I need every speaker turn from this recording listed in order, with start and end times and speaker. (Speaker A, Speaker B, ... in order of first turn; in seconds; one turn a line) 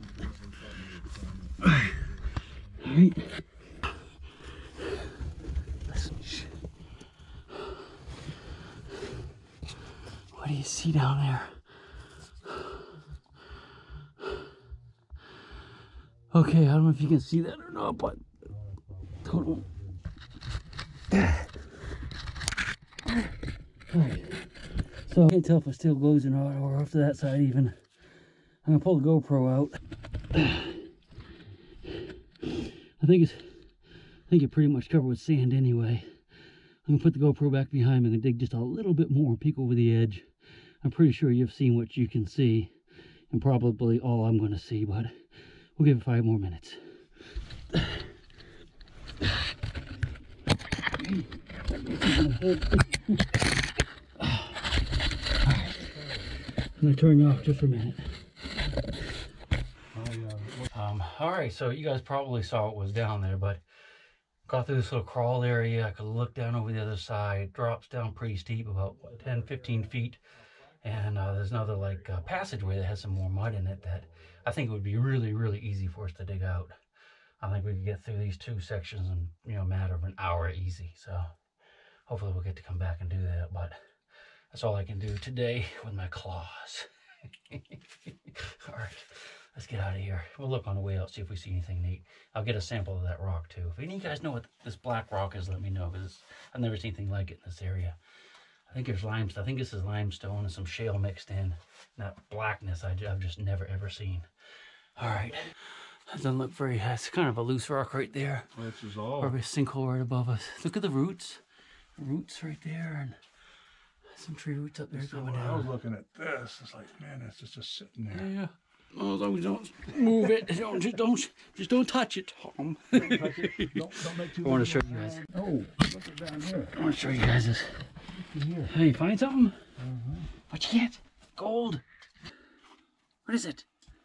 Speaker A: 0.1-2.0
Speaker B: 2.8-3.3
Speaker B: 5.9-6.5
Speaker B: 10.3-11.6
Speaker B: 16.3-18.2
Speaker A: 18.5-20.0
Speaker B: 19.2-19.6
Speaker B: 21.1-21.5
Speaker B: 23.9-24.5
Speaker B: 25.1-27.8
Speaker B: 28.6-29.8
Speaker B: 30.3-30.7
Speaker B: 33.0-33.7
Speaker B: 34.3-36.1
Speaker B: 36.9-40.3
Speaker B: 40.8-42.7
Speaker B: 43.3-45.1
Speaker B: 45.8-46.8
Speaker B: 51.0-51.3
Speaker B: 51.8-53.0
Speaker B: 54.2-54.5
Speaker A: 55.6-56.1
Speaker B: 56.8-58.0
Speaker A: 59.9-60.7
Speaker B: 60.7-63.6
Speaker B: 64.5-70.2
Speaker B: 70.8-76.7
Speaker B: 77.4-81.3
Speaker B: 82.1-83.8
Speaker B: 84.5-86.9
Speaker B: 87.5-98.0
Speaker B: 98.7-104.3
Speaker B: 105.0-108.5
Speaker A: 108.5-109.4
Speaker B: 109.2-111.4
Speaker B: 112.0-113.2
Speaker B: 114.1-115.7
Speaker A: 114.9-118.3
Speaker B: 118.1-125.2
Speaker A: 120.1-120.4
Speaker A: 122.9-126.8
Speaker B: 126.7-127.8
Speaker A: 128.3-128.7
Speaker B: 128.7-129.6
Speaker A: 129.8-130.3
Speaker B: 130.5-131.8
Speaker B: 133.2-133.6